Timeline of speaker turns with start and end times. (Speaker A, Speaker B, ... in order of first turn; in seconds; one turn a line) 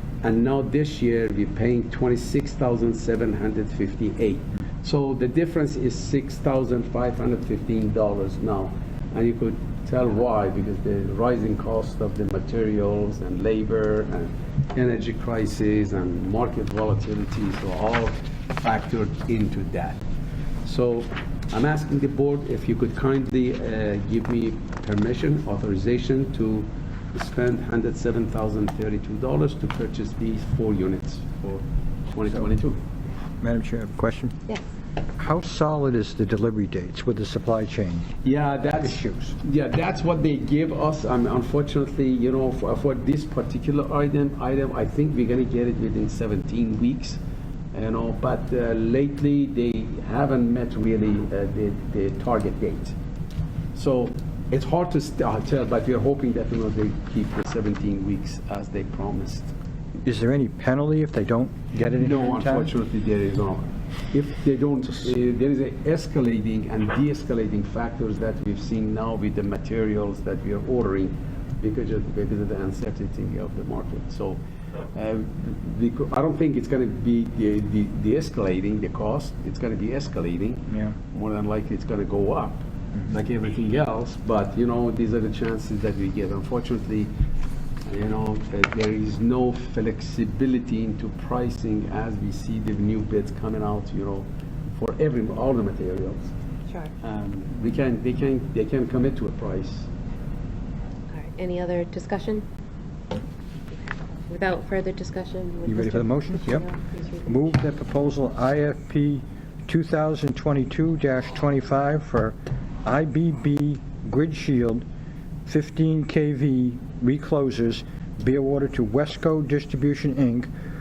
Speaker A: 0.2-20.0
Speaker A: 20.6-32.8
Speaker B: 33.4-34.4
Speaker B: 35.2-38.1
Speaker A: 38.2-47.2
Speaker B: 38.8-39.3
Speaker A: 47.7-53.0
Speaker A: 53.7-59.5
Speaker B: 60.0-62.7
Speaker A: 62.0-74.4
Speaker A: 74.9-87.1
Speaker A: 87.8-96.3
Speaker A: 97.0-99.9
Speaker C: 101.1-102.4
Speaker C: 103.7-107.4
Speaker B: 105.7-106.7
Speaker B: 107.2-114.8
Speaker B: 115.5-120.5